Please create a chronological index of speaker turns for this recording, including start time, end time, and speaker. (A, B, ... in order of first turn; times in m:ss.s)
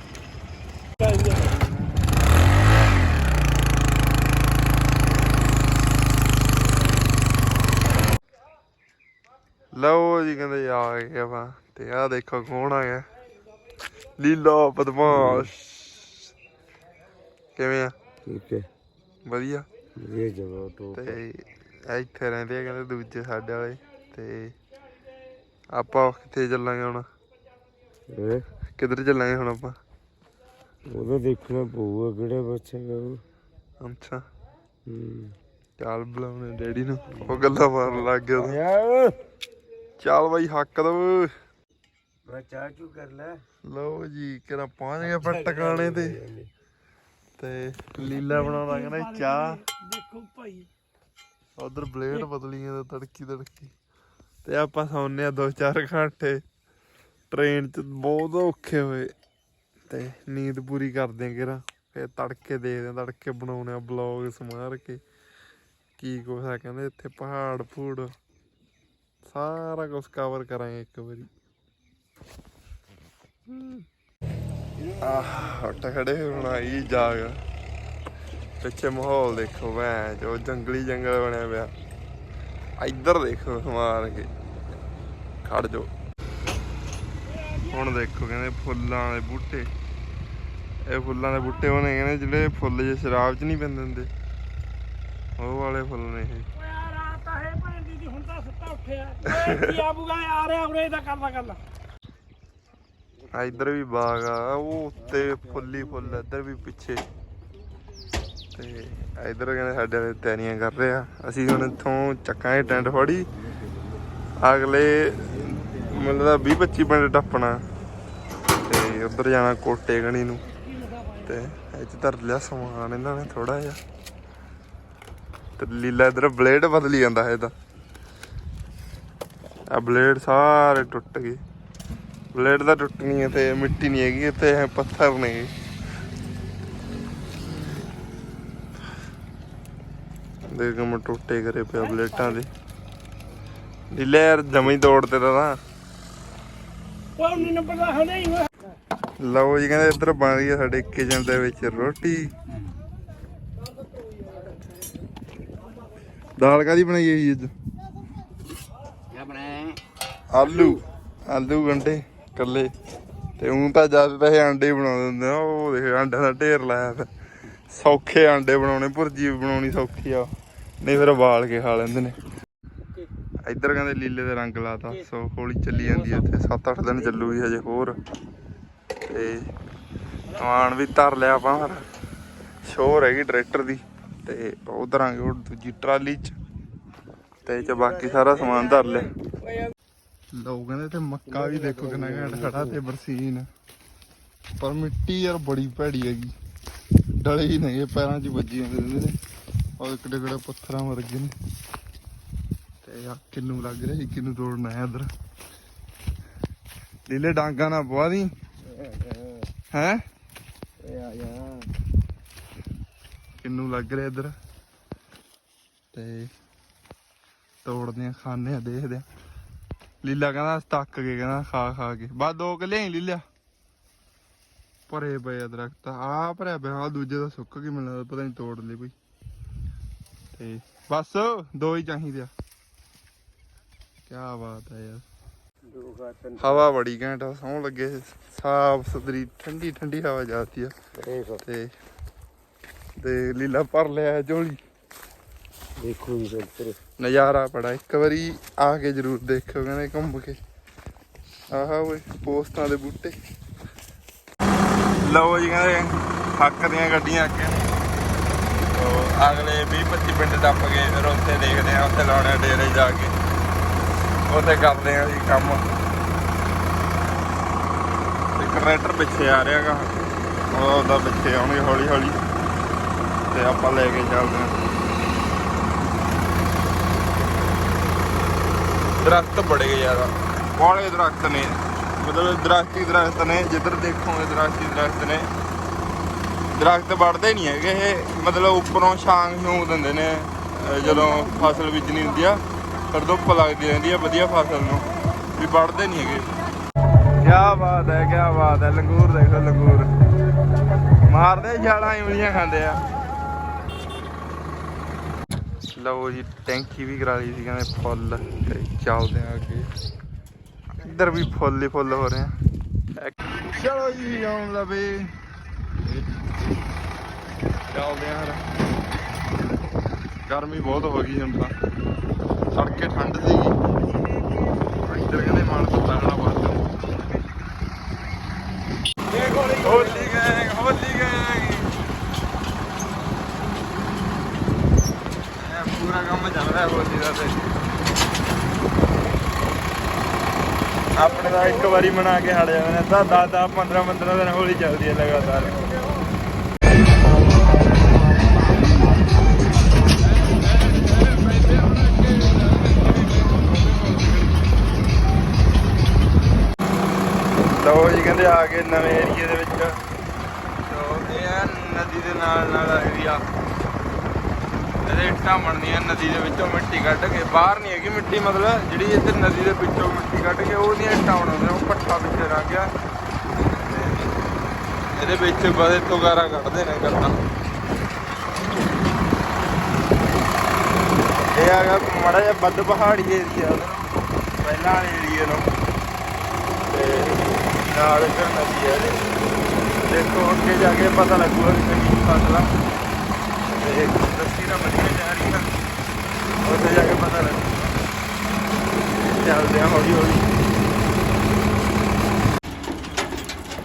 0:01.2-0:02.0 A
0:09.7-0:13.0 A
0:14.2-0:16.3 A
0:15.1-0:15.5 B
0:17.6-0:17.9 A
0:18.3-0:18.7 B
0:19.3-0:19.7 A
0:20.0-0:21.2 B
0:20.9-0:24.6 A
0:25.7-0:27.1 A
0:28.1-0:28.4 B
0:28.8-0:29.8 A
0:30.9-0:33.2 B
0:33.8-0:34.2 A
0:34.9-0:35.4 B
0:35.8-0:38.6 A
0:37.2-0:39.2 B
0:40.0-0:41.3 A
0:42.3-0:43.4 B
0:43.6-0:46.2 A
0:45.2-0:46.5 B
0:47.4-0:49.6 A
0:48.6-0:49.0 C
0:49.6-0:50.7 C
0:51.6-0:53.7 A
0:54.4-0:56.4 A
0:57.3-0:59.1 A
0:59.9-1:05.0 A
1:06.0-1:08.1 A
1:09.2-1:11.3 A
1:13.5-1:13.8 A
1:14.9-1:17.4 A
1:18.6-1:21.7 A
1:22.8-1:24.3 A
1:25.4-1:25.9 A
1:27.6-1:29.7 A
1:30.9-1:34.1 A
1:35.4-1:36.5 A
1:36.7-1:41.6 C
1:39.2-1:39.8 A
1:43.3-1:47.0 A
1:48.6-1:53.3 A
1:54.4-1:57.6 A
1:58.6-2:00.4 A
2:01.2-2:03.8 A
2:05.6-2:07.5 A
2:09.7-2:11.4 A
2:12.3-2:15.5 A
2:20.5-2:22.5 A
2:23.9-2:25.6 A
2:27.3-2:28.5 C
2:27.3-2:27.6 A
2:29.2-2:32.3 A
2:36.4-2:37.5 A
2:40.3-2:42.7 A
2:43.4-2:47.1 A
2:47.7-2:50.3 A
2:50.8-2:52.2 A
2:53.4-2:58.0 A
2:59.1-2:59.5 A
3:00.4-3:01.8 A
3:02.6-3:06.4 A
3:07.4-3:09.1 A
3:10.3-3:13.5 A
3:11.3-3:12.8 B
3:14.6-3:16.3 A
3:17.2-3:19.2 A
3:19.8-3:21.3 A
3:22.8-3:25.1 A
3:27.1-3:28.3 A
3:29.7-3:30.0 A
3:30.9-3:31.6 B
3:33.4-3:34.4 A
3:35.9-3:36.3 A
3:37.6-3:39.1 A
3:40.0-3:43.2 A
3:44.9-3:48.9 A
3:50.4-3:52.3 A
3:54.1-3:55.0 A
3:55.7-3:56.7 B
3:56.4-4:00.7 A
4:01.0-4:01.4 B
4:01.4-4:01.7 A
4:03.0-4:04.6 A
4:05.8-4:06.8 B
4:07.0-4:10.4 A
4:11.5-4:13.2 A
4:15.0-4:17.7 A
4:18.6-4:23.1 A
4:24.3-4:25.6 A
4:28.4-4:29.9 A
4:30.5-4:32.2 A
4:33.3-4:34.5 A
4:39.0-4:45.3 A
4:46.5-4:54.9 A
4:55.4-4:56.3 A
4:57.2-4:59.9 A
5:01.1-5:02.8 A
5:05.8-5:09.7 A
5:10.8-5:12.3 A
5:13.0-5:15.1 A
5:17.7-5:18.5 A
5:20.3-5:21.6 A
5:22.5-5:23.6 A
5:24.8-5:26.7 A
5:29.1-5:31.8 A
5:35.4-5:37.4 A
5:41.0-5:45.6 A
5:50.1-5:54.5 A
5:57.5-5:59.8 A
6:00.7-6:03.2 A
6:04.8-6:12.7 A
6:13.3-6:14.1 A
6:15.0-6:17.2 A
6:21.3-6:25.5 A
6:26.7-6:29.0 A
6:29.8-6:32.5 A
6:33.5-6:35.5 A
6:36.4-6:37.6 A
6:39.0-6:40.3 A